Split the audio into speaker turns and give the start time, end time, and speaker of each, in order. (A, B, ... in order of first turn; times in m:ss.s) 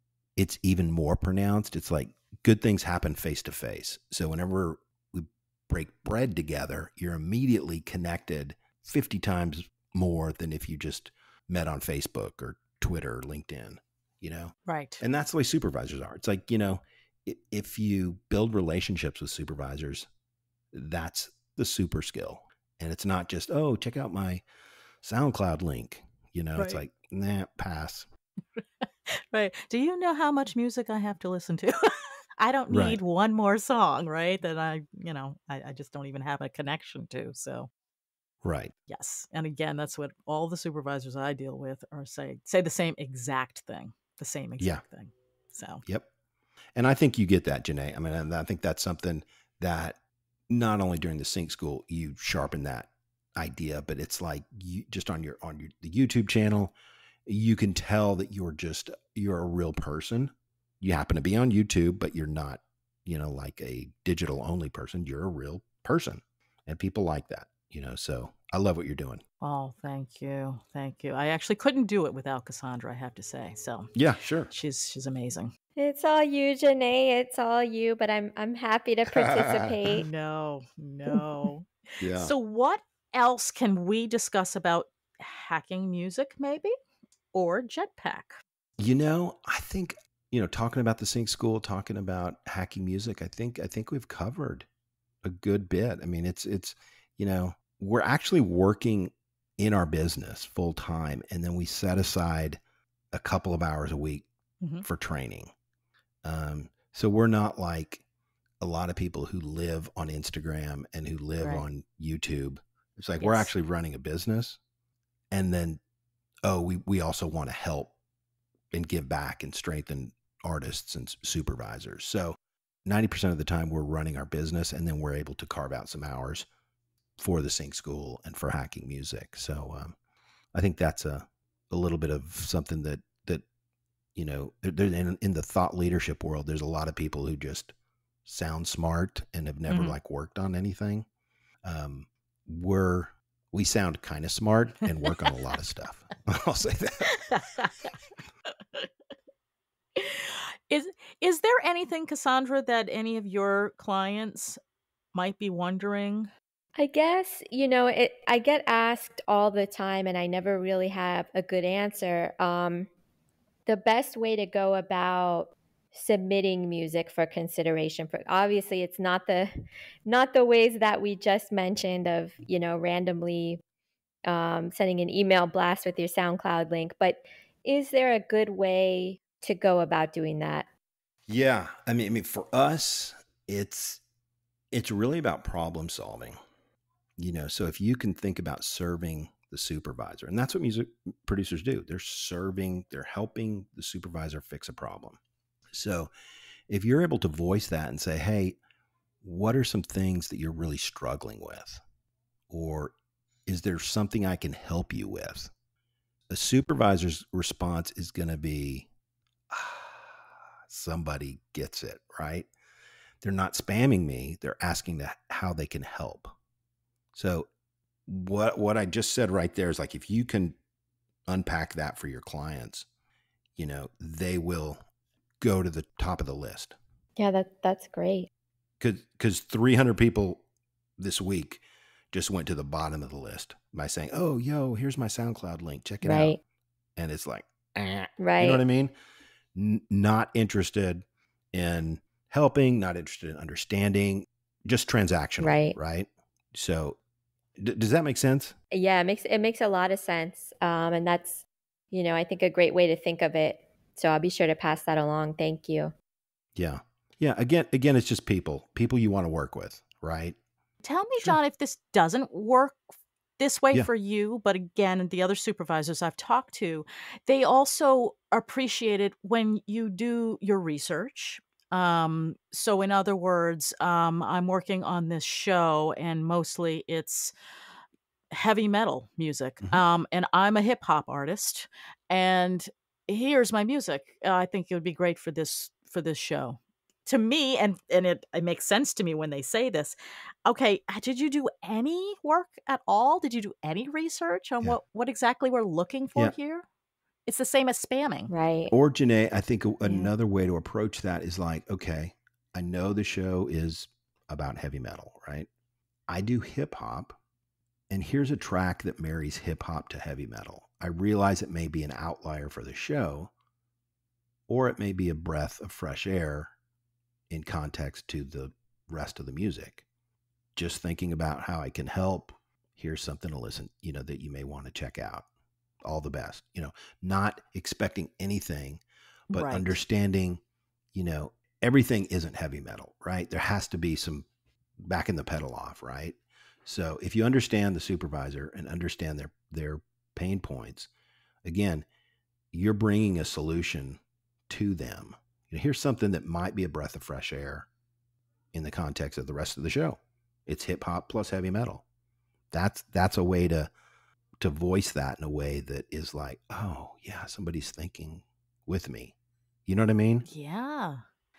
0:00.4-0:20.1 A
0:14.6-0:15.0 B
0:20.7-0:24.4 A
0:25.0-0:28.1 A
0:26.6-0:26.8 B
0:28.6-0:37.7 B
0:32.7-0:33.0 A
0:38.4-0:38.7 A
0:38.9-0:45.8 B
0:46.8-0:50.0 A
0:50.5-0:56.7 A
0:57.2-1:09.2 A
1:09.4-1:13.9 B
1:13.9-1:14.5 A
1:14.5-1:15.5 B
1:15.8-1:20.1 C
1:19.1-1:19.8 A
1:19.9-1:26.7 B
1:22.0-1:22.3 A
1:27.3-1:28.4 B
1:28.8-1:34.7 A
1:35.2-1:42.6 A
1:43.1-1:44.3 A
1:44.8-1:45.5 A
1:46.2-1:48.0 A
1:48.6-1:54.6 A
1:53.2-1:53.5 B
1:55.3-1:55.8 A
1:56.4-1:57.9 A
1:58.7-2:06.5 A
2:07.2-2:10.0 A
2:10.5-2:13.4 A
2:14.1-2:17.7 A
2:18.2-2:21.0 A
2:19.7-2:20.0 B
2:21.6-2:27.2 A
2:27.3-2:27.8 B
2:30.0-2:34.6 B
2:35.1-2:36.3 B
2:36.8-2:42.9 C
2:43.7-2:49.5 C
2:50.0-2:53.6 C
2:54.2-3:00.6 C
3:01.3-3:04.0 A
3:04.7-3:06.4 A
3:07.2-3:15.2 A
3:15.7-3:16.1 A
3:16.7-3:18.6 A
3:19.2-3:21.8 A
3:22.5-3:22.9 A
3:23.4-3:25.5 A
3:26.3-3:28.9 A
3:29.5-3:32.5 A
3:33.2-3:36.3 A
3:37.1-3:37.5 A
3:38.1-3:40.6 A
3:41.3-3:42.9 A
3:43.6-3:44.8 A
3:45.4-3:46.8 A
3:47.2-3:48.3 C
3:48.8-3:50.4 A
3:51.0-3:56.4 A
3:56.0-3:56.4 C
3:57.0-3:58.9 A
3:58.2-3:58.6 C
3:59.5-4:07.0 A
4:05.4-4:05.8 C
4:07.6-4:08.5 A
4:08.7-4:15.9 C
4:16.6-4:20.4 A
4:20.8-4:22.8 B
4:23.4-4:37.3 B
4:38.3-4:49.9 B
4:50.4-4:56.6 B
4:57.2-4:58.3 B
4:58.3-4:58.7 C
4:58.7-5:05.5 A
4:59.8-5:00.1 C
5:06.1-5:07.2 A
5:07.9-5:13.3 A
5:14.5-5:16.5 A
5:17.3-5:19.8 A
5:20.6-5:25.3 A
5:25.8-5:30.4 A
5:29.3-5:29.8 B
5:30.9-5:34.3 A
5:34.8-5:40.9 A
5:41.4-5:41.8 A
5:42.5-5:47.7 A
5:48.5-5:51.8 A
5:52.5-5:53.7 A
5:54.4-5:59.1 A
5:59.6-6:00.2 A
6:00.2-6:01.0 B